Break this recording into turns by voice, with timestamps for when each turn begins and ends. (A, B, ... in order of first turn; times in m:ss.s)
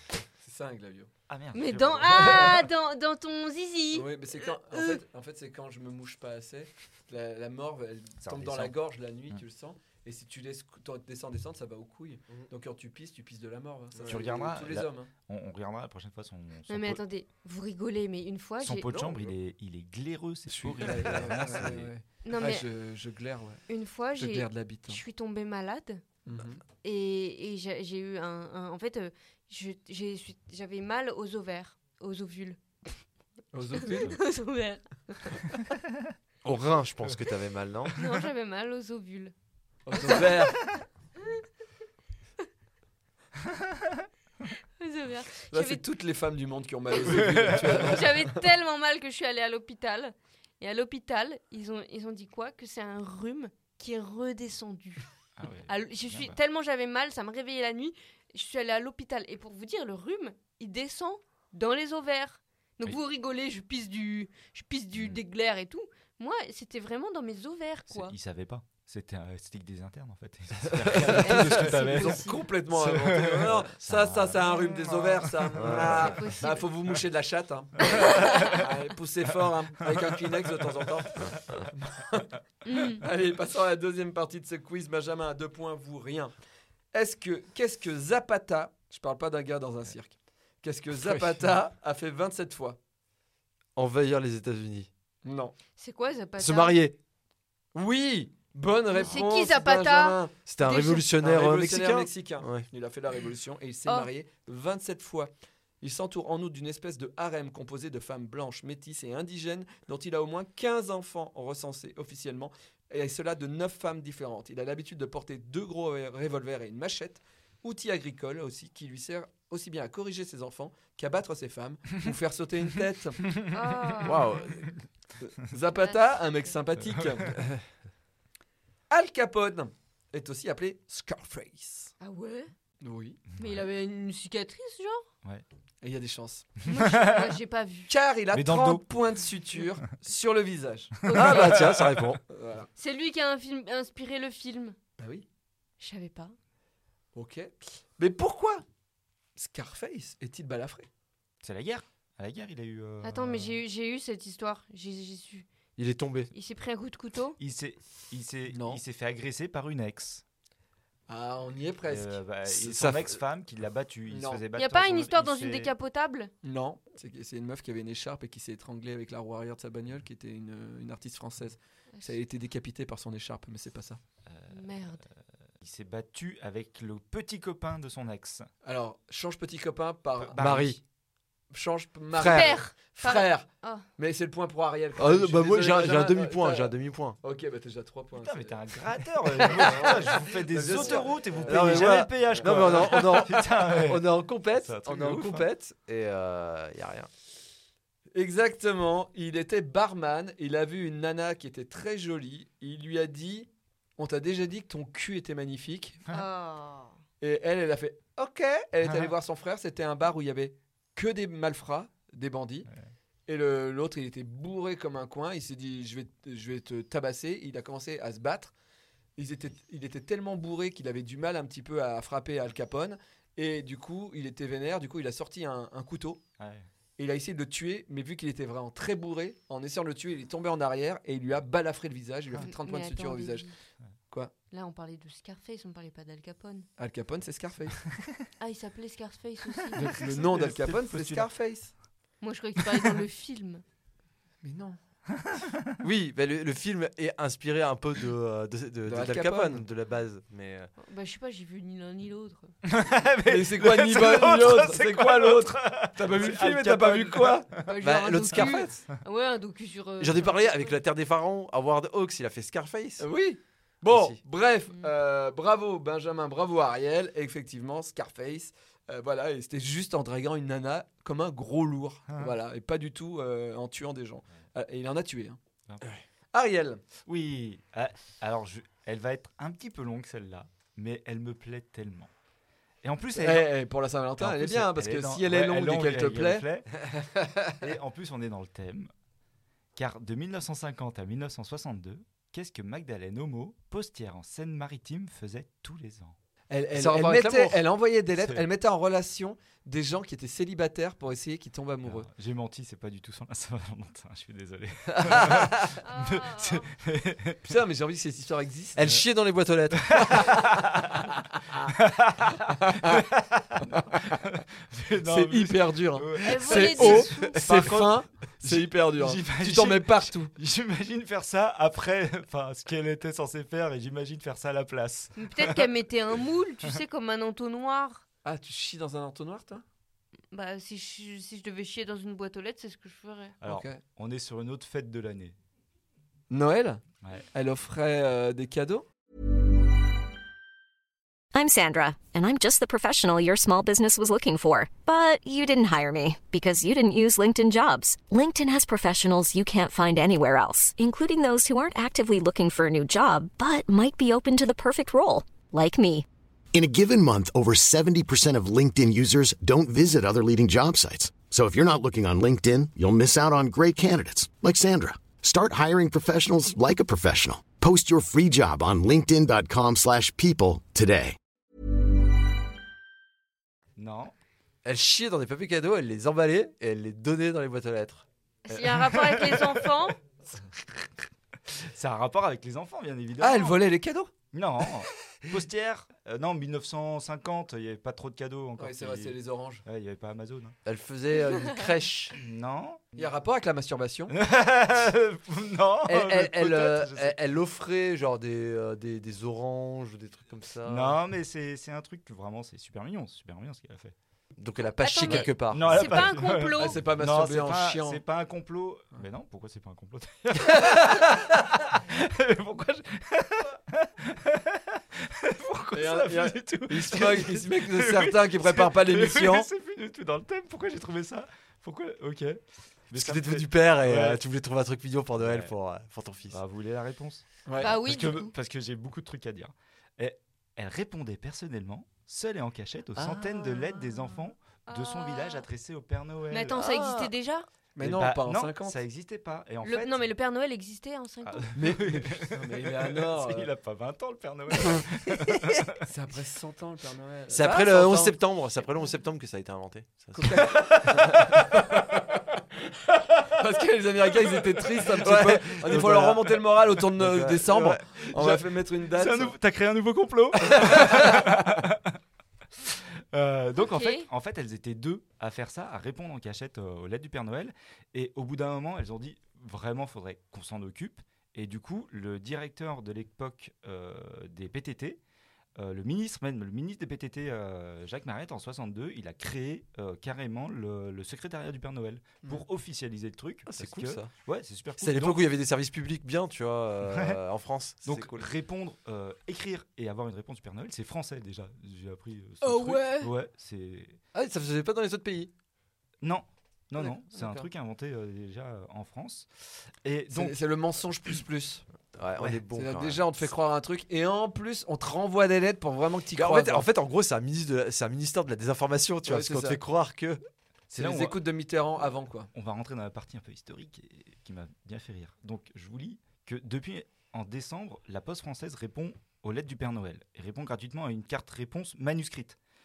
0:00.4-0:01.1 A
0:01.3-0:02.6 B
0:01.5-0:05.0 C
0:02.1-0:02.6 A
0:03.9-0:15.1 A
0:08.2-0:08.8 B
0:14.1-0:17.0 B
0:16.7-0:18.9 C
0:18.6-0:21.9 B
0:18.9-0:19.3 D
0:20.5-0:23.6 A
0:22.2-0:22.7 C
0:23.7-0:26.0 C
0:24.2-0:25.0 A
0:26.2-0:26.6 A
0:26.8-0:33.0 C
0:33.5-0:34.2 A
0:33.8-0:35.6 C
0:35.6-0:36.0 B
0:36.4-0:38.0 D
0:38.0-0:39.3 C
0:39.8-0:40.6 A
0:39.9-0:41.4 C
0:43.4-0:44.0 B
0:44.8-0:45.8 C
0:45.5-0:48.4 A
0:47.1-0:48.0 B
0:47.4-0:55.1 C
0:55.4-0:56.4 B
0:55.6-1:08.2 C
1:04.9-1:05.2 B
1:07.9-1:16.1 B
1:10.7-1:11.4 D
1:11.0-1:12.4 C
1:11.2-1:26.3 A
1:15.6-1:16.2 D
1:15.8-1:16.6 C
1:17.9-1:18.6 C
1:17.9-1:18.6 B
1:22.6-1:23.0 C
1:26.9-1:32.8 A
1:30.9-1:31.2 D
1:33.8-1:34.9 D
1:35.2-1:35.5 A
1:35.8-1:36.8 C
1:36.4-1:37.0 D
1:37.7-1:40.3 A
1:38.9-1:41.0 C
1:40.5-1:42.6 D
1:41.0-2:03.3 A
2:03.3-2:03.5 B
2:03.5-2:04.5 C
2:04.0-2:04.7 D
2:05.2-2:07.4 A
2:05.8-2:06.5 C
2:06.9-2:07.3 B
2:08.9-2:11.9 A
2:12.0-2:12.5 C
2:12.8-2:13.2 A
2:13.4-2:13.6 B
2:13.4-2:15.1 C
2:15.8-2:16.5 A
2:16.6-2:17.3 B
2:16.7-2:17.9 C
2:17.9-2:21.1 A
2:18.3-2:18.8 B
2:21.0-2:22.1 B
2:21.1-2:21.6 C
2:21.1-2:22.2 D
2:22.3-2:22.7 A
2:22.8-2:24.8 C
2:25.0-2:25.2 A
2:25.8-2:26.3 C
2:27.1-2:28.6 A
2:29.4-2:30.9 A
2:31.4-2:33.6 B
2:33.0-2:35.5 C
2:35.8-2:36.3 D
2:36.3-2:37.4 C
2:37.4-2:40.2 B
2:38.5-2:38.8 A
2:41.1-2:42.2 A
2:41.9-2:45.7 B
2:42.5-2:43.2 D
2:44.1-2:44.4 A
2:44.6-2:46.3 C
2:46.4-2:54.0 A
2:54.3-2:54.7 B
2:54.5-2:55.0 C
2:55.6-2:58.5 B
2:58.6-3:00.7 A
3:00.3-3:00.8 B
3:00.4-3:00.8 D
3:01.5-3:08.6 A
3:02.2-3:02.6 D
3:02.2-3:03.8 C
3:05.0-3:07.2 D
3:08.1-3:15.5 B
3:09.2-3:13.4 A
3:09.6-3:09.9 D
3:10.6-3:17.1 D
3:18.1-3:26.0 A
3:26.1-3:26.9 C
3:27.2-3:32.7 A
3:28.8-3:29.1 B
3:33.3-3:38.5 A
3:39.2-3:46.2 A
3:46.4-3:46.7 B
3:47.0-3:53.5 A
3:52.4-3:53.5 C
3:54.5-3:56.7 C
3:56.8-3:57.8 A
3:58.4-3:59.9 C
3:59.7-4:01.3 B
3:59.7-4:01.7 A
4:02.2-4:03.6 C
4:02.7-4:03.0 B
4:04.4-4:04.8 A
4:05.1-4:05.8 B
4:05.8-4:10.7 D
4:08.8-4:09.6 A
4:10.8-4:12.5 C
4:12.6-4:17.7 B
4:13.2-4:17.5 A
4:17.6-4:20.8 C
4:17.8-4:18.8 D
4:20.0-4:23.0 D
4:23.0-4:35.4 A
4:23.9-4:24.2 D
4:32.1-4:32.3 B
4:36.3-4:36.8 A
4:37.0-4:42.1 B
4:42.8-4:43.5 B
4:43.2-4:46.5 A
4:44.2-4:46.9 B
4:47.6-4:48.9 B
4:49.7-4:56.2 B
4:56.5-5:02.1 A
4:56.7-4:57.6 D
4:58.2-4:58.4 B
5:01.8-5:07.4 B
5:05.0-5:05.4 A
5:05.8-5:06.7 C
5:07.4-5:09.0 A
5:08.8-5:10.4 D
5:09.7-5:11.0 B
5:10.0-5:10.6 A
5:11.4-5:11.7 A
5:11.7-5:25.7 B
5:12.5-5:13.1 A
5:13.6-5:14.0 A
5:15.0-5:20.3 A
5:16.2-5:17.4 C
5:25.2-5:28.0 C
5:28.2-5:29.6 A
5:30.3-5:33.4 C
5:33.4-5:35.4 B
5:33.4-5:33.8 A
5:36.3-5:36.8 A
5:37.3-5:38.8 A
5:41.3-5:56.0 E
5:56.5-6:11.2 F
6:13.8-6:14.1 B
6:14.6-6:18.0 D
6:18.4-6:20.0 C
6:18.5-6:19.7 B
6:21.5-6:23.6 B
6:23.2-6:24.1 A
6:24.3-6:30.5 B
6:28.6-6:29.6 A
6:30.6-6:32.2 D
6:32.1-6:32.9 B
6:33.0-6:34.1 A
6:34.1-6:37.2 B
6:35.9-6:41.0 D
6:40.6-6:43.9 B
6:44.4-6:46.1 D
6:44.8-6:46.8 C
6:45.0-7:04.2 B
6:46.5-6:48.0 A
6:50.4-6:51.2 A
6:55.7-6:59.5 A
7:02.9-7:06.4 D
7:05.2-7:05.5 B
7:06.3-7:16.7 B
7:07.4-7:07.8 A
7:07.6-7:08.3 C
7:13.2-7:15.5 C
7:16.3-7:17.5 C
7:16.6-7:17.1 D
7:17.8-7:18.8 A
7:17.8-7:20.1 B
7:19.6-7:21.5 C
7:21.2-7:25.8 B
7:21.5-7:23.5 A
7:25.8-7:28.2 A
7:27.3-7:30.9 D
7:30.1-7:32.0 A
7:33.2-7:39.4 A
7:35.0-7:36.4 D
7:37.0-7:37.9 D
7:38.1-7:38.4 B
7:38.9-7:42.0 B
7:40.5-7:41.3 A
7:42.6-7:55.0 B
7:43.6-7:44.1 C
7:55.6-8:05.3 B
8:03.5-8:04.2 D
8:04.8-8:08.3 D
8:06.9-8:07.2 B
8:07.8-8:14.0 B
8:12.4-8:13.1 C
8:14.1-8:15.3 D
8:16.0-8:20.4 B
8:16.8-8:17.4 A
8:20.1-8:21.6 A
8:21.9-8:23.0 D
8:22.5-8:26.7 A
8:26.2-8:30.2 D
8:29.0-8:29.6 A
8:30.7-8:32.3 A
8:30.7-8:31.2 B
8:32.3-8:42.4 B